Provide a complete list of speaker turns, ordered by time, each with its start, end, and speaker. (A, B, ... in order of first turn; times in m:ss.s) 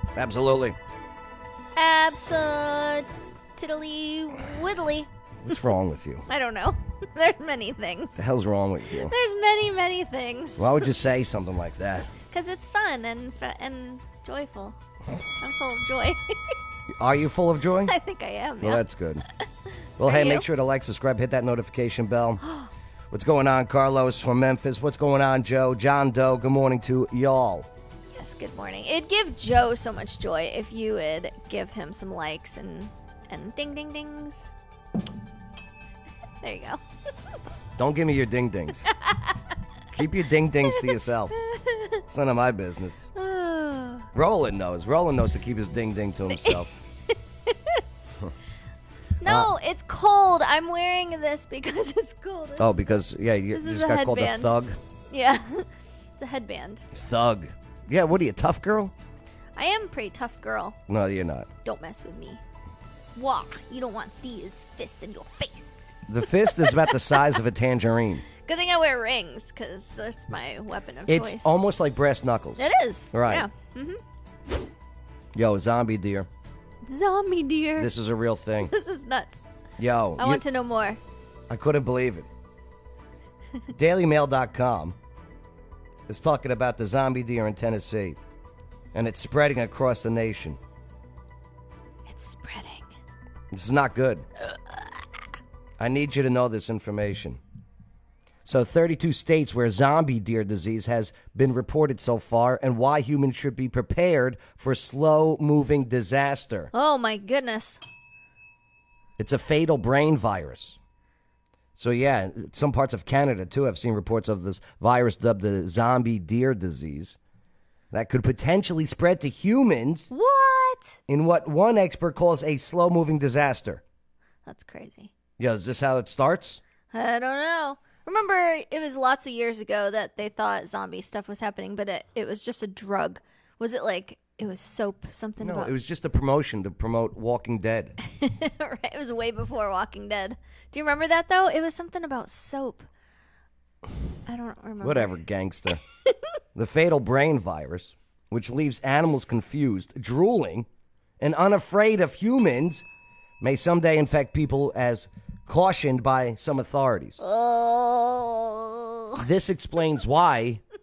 0:00.2-0:00.8 A
0:01.8-0:03.0 B
0:03.6-0:05.1 B
0:05.4-0:06.2 A
0:06.3-0:08.3 B
0:08.2-0:09.1 A
0:09.0-0:10.9 B
0:10.6-0:12.1 A
0:12.2-0:14.8 B
0:15.4-0:16.2 B
0:17.0-0:17.9 A
0:17.8-0:18.8 B
0:18.6-0:19.2 A
0:20.0-0:22.4 A
0:20.0-0:20.4 B
0:23.1-0:27.7 A
0:28.1-0:34.5 B
0:36.4-0:36.8 B
0:37.8-0:38.8 A
0:39.9-0:41.3 A
0:42.1-0:43.1 A
0:43.2-0:44.1 B
0:44.1-0:46.7 A
0:46.3-0:46.6 B
0:49.2-0:52.7 B
0:49.2-0:49.5 A
0:52.6-0:54.8 A
0:53.5-0:54.5 B
0:55.1-0:55.6 B
0:56.2-0:56.8 B
0:56.9-0:58.9 A
0:59.6-1:00.8 B
1:00.9-1:01.5 A
1:01.6-1:02.4 B
1:03.1-1:05.9 B
1:06.1-1:08.2 A
1:06.6-1:06.9 B
1:08.4-1:11.5 B
1:11.1-1:13.5 A
1:12.6-1:14.0 B
1:15.3-1:16.3 A
1:16.8-1:17.9 B
1:17.8-1:18.7 A
1:18.6-1:19.4 B
1:19.8-1:20.4 A
1:20.2-1:21.0 B
1:21.5-1:22.3 A
1:23.8-1:25.0 A
1:26.1-1:28.2 A
1:28.9-1:30.6 A
1:32.1-1:32.9 B
1:33.5-1:34.2 A
1:35.8-1:37.4 A
1:38.4-1:46.7 A
1:46.7-1:47.8 B
1:49.2-1:50.8 A
1:51.7-1:57.2 A
1:57.9-2:00.1 A
2:00.1-2:01.0 B
2:01.1-2:03.8 A
2:04.4-2:05.1 B
2:05.4-2:06.6 A
2:06.9-2:15.7 B
2:15.4-2:18.0 A
2:18.1-2:22.9 B
2:24.3-2:25.1 B
2:24.8-2:25.8 A
2:26.5-2:30.7 A
2:31.2-2:32.8 A
2:33.4-2:37.2 A
2:37.2-2:39.2 B
2:39.2-2:40.6 A